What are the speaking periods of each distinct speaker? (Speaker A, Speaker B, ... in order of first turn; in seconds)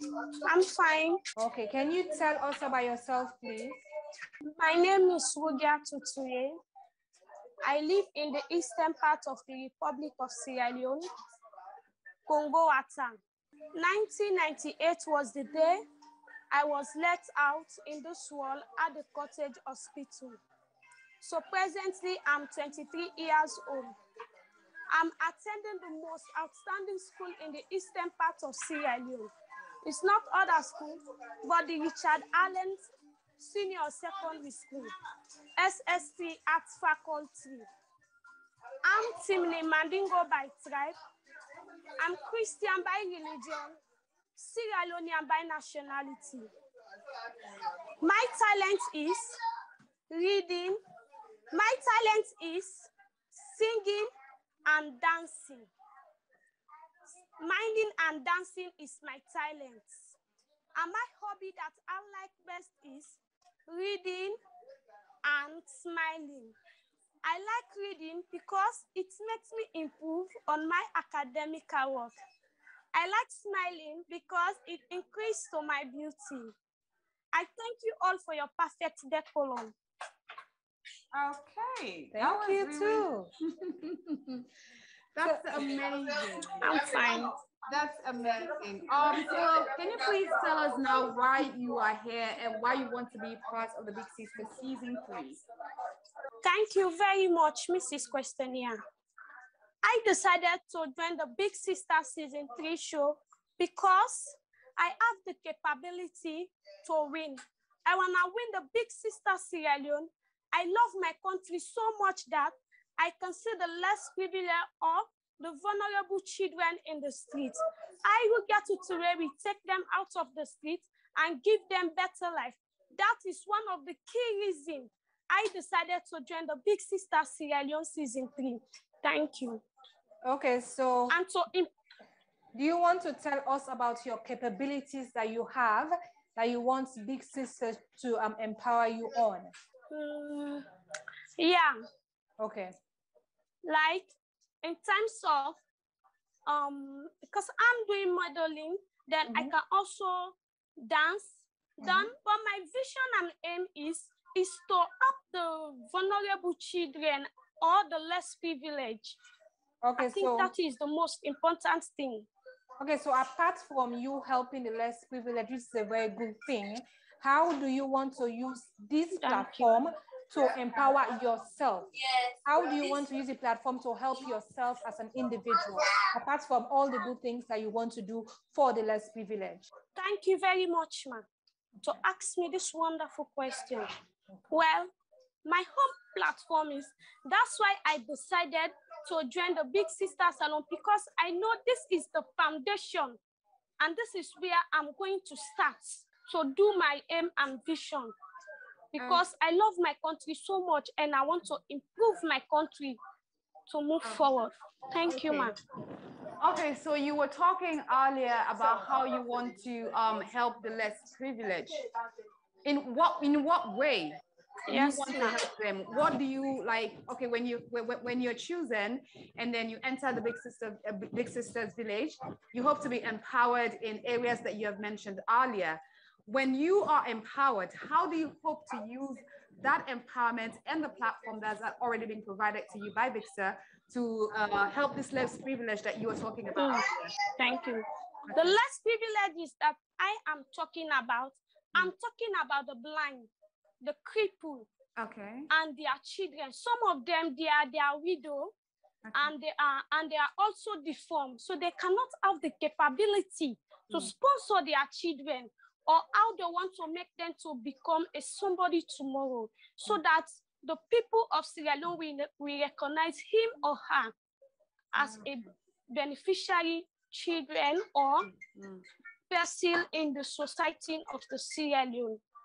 Speaker A: 0.4-1.2, 4.4-6.6, 7.6-11.1, 12.3-13.2, 13.7-15.8, 16.5-20.4, 21.2-23.9, 24.9-29.3, 29.8-32.8, 33.4-34.9, 35.6-37.7, 38.8-41.0, 42.0-43.8, 44.4-46.5, 48.0-49.4, 50.1-50.8, 51.5-54.1, 54.6-55.7, 57.4-60.1, 60.8-64.4, 65.2-66.5, 67.2-72.2, 72.9-76.5, 77.3-79.7, 86.6-87.3, 96.4-98.8, 99.8-129.6, 131.1-131.7, 139.9-140.6, 141.4-141.8, 143.6-145.6, 146.4-159.2, 160.0-162.3, 169.2-169.8, 179.9-181.3, 181.8-183.9, 184.5-184.9, 185.4-193.2, 193.8-198.1, 198.9-203.0, 203.7-205.6, 214.7-215.4, 236.6-243.3, 243.8-244.7, 245.5-248.5, 249.1-264.1, 264.9-268.3, 269.3-272.2
Speaker B: 1.4-3.8, 82.1-83.3, 85.2-85.7, 130.2-131.2, 132.5-139.5, 142.4-142.7, 159.8-160.5, 162.8-171.9, 172.4-179.7
Speaker C: 81.1-84.5, 85.1-86.7, 87.7-95.4, 199.0-199.2, 205.1-205.5, 206.4-211.8, 212.6-237.1, 238.3-238.6, 245.0-245.4, 265.0-265.3, 268.5-268.8